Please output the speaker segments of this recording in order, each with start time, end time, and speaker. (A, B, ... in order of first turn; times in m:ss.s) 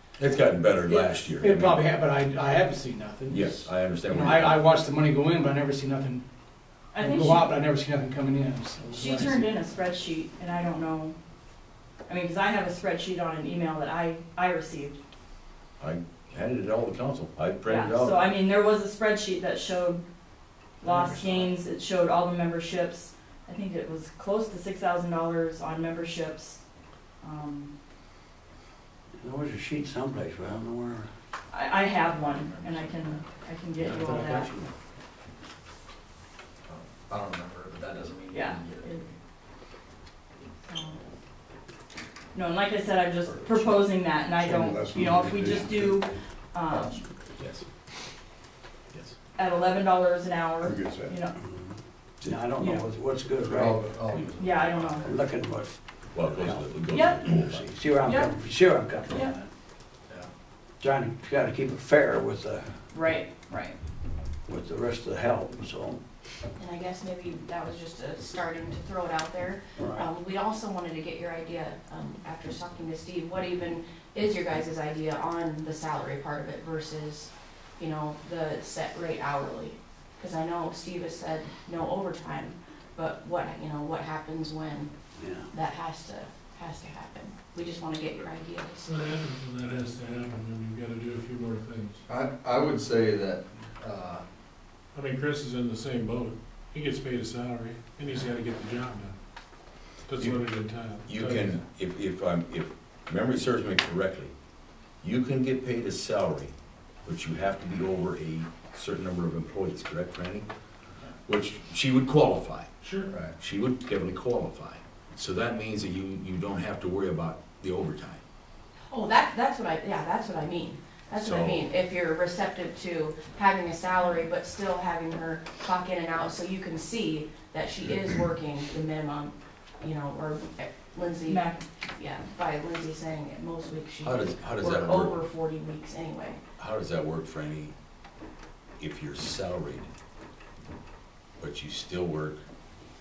0:00.2-0:01.9 A
0:00.9-0:06.2 B
0:03.3-0:04.7 A
0:06.9-0:07.5 C
0:07.0-0:09.5 B
0:08.9-0:11.2 C
0:12.1-0:15.0 C
0:15.8-0:18.3 A
0:17.6-0:20.0 C
0:20.8-0:26.6 C
0:20.8-0:21.4 B
0:27.2-0:27.8 C
0:29.2-0:31.1 D
0:31.5-0:34.5 C
0:33.8-0:34.7 A
0:36.7-0:39.1 E
0:38.3-0:39.0 C
0:40.6-0:41.0 C
0:42.3-0:47.0 C
0:44.4-0:46.0 E
0:47.4-0:47.6 A
0:49.4-0:51.3 C
0:50.6-0:51.1 E
0:52.2-0:53.8 D
0:52.6-0:52.8 C
0:53.4-0:55.0 E
0:54.3-0:55.1 C
0:55.0-0:55.8 D
0:56.1-0:57.7 A
0:56.3-0:59.5 D
0:56.9-0:57.3 C
0:58.0-0:58.4 C
1:00.8-1:02.8 D
1:02.9-1:03.8 C
1:04.5-1:06.0 D
1:06.6-1:24.9 F
1:09.8-1:10.1 D
1:25.2-1:25.5 D
1:25.5-1:28.9 F
1:28.8-1:32.0 G
1:32.1-1:34.2 E
1:34.9-1:39.1 G
1:40.0-1:41.6 G
1:41.1-1:44.3 A
1:45.0-1:46.5 A
1:47.0-1:50.5 A
1:51.3-1:52.7 A
1:52.8-1:53.1 G
1:53.4-1:58.2 A
1:58.9-2:16.4 F
2:01.2-2:01.7 A
2:11.2-2:11.6 C
2:14.0-2:15.2 A
2:16.6-2:17.7 A
2:18.8-2:19.9 A
2:21.4-2:22.4 A